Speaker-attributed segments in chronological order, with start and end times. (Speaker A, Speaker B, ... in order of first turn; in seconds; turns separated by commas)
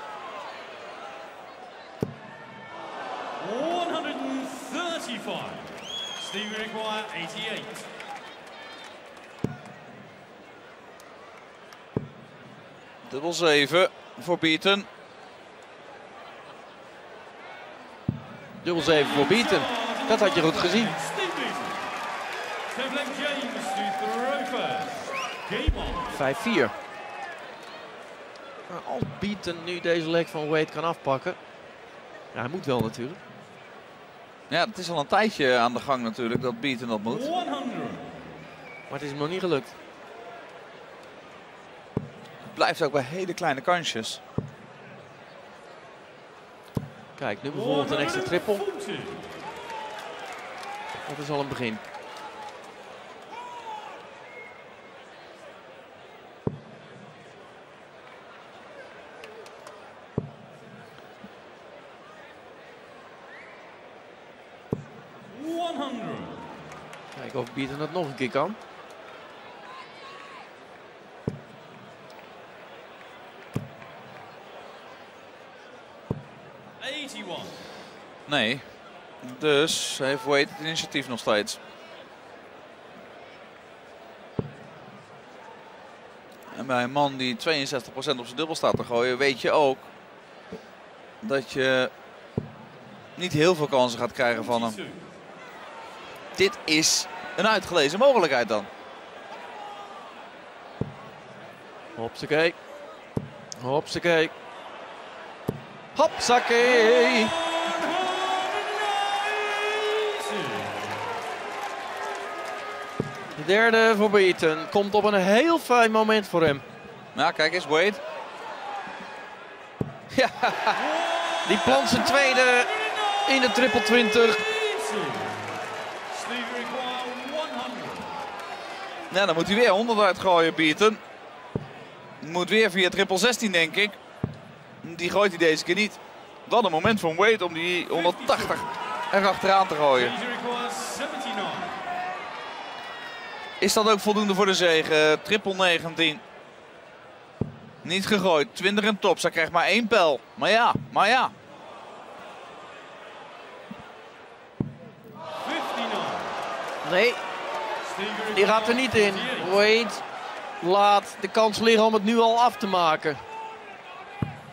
Speaker A: 3.4-7.9, Speaker B: 13.0-14.9, Speaker C: 18.6-20.9, Speaker A: 18.8-21.8, Speaker A: 22.7-26.2, Speaker C: 26.1-26.7, Speaker C: 28.7-31.4, Speaker C: 32.3-33.2, Speaker B: 34.5-37.3, Speaker A: 37.1-38.1, Speaker C: 38.9-39.7, Speaker B: 42.4-44.2, Speaker C: 47.2-48.6, Speaker A: 47.5-49.3, Speaker C: 51.0-51.8, Speaker A: 65.3-66.4, Speaker C: 67.1-68.6, Speaker A: 76.8-77.6, Speaker B: 78.3-78.6, Speaker B: 79.2-81.6, Speaker B: 86.5-89.9, Speaker B: 91.2-91.9, Speaker B: 93.2-94.8, Speaker A: 94.4-95.0, Speaker B: 96.3-98.7, Speaker C: 102.0-102.5, Speaker C: 103.6-104.3, Speaker C: 105.9-107.4, Speaker A: 106.6-110.9, Speaker C: 113.3-116.6, Speaker B: 117.1-118.0, Speaker B: 120.1-120.8, Speaker A: 120.8-125.5, Speaker C: 121.4-122.7, Speaker C: 123.2-124.4, Speaker A: 126.1-128.2, Speaker B: 129.1-131.0, Speaker B: 132.2-134.0, Speaker B: 134.8-140.1, Speaker A: 137.9-138.7, Speaker A: 139.9-141.8, Speaker B: 143.6-146.2, Speaker B: 147.8-151.3, Speaker A: 155.4-156.3, Speaker C: 156.8-157.2, Speaker A: 157.8-159.6, Speaker C: 158.3-160.0, Speaker C: 160.6-163.2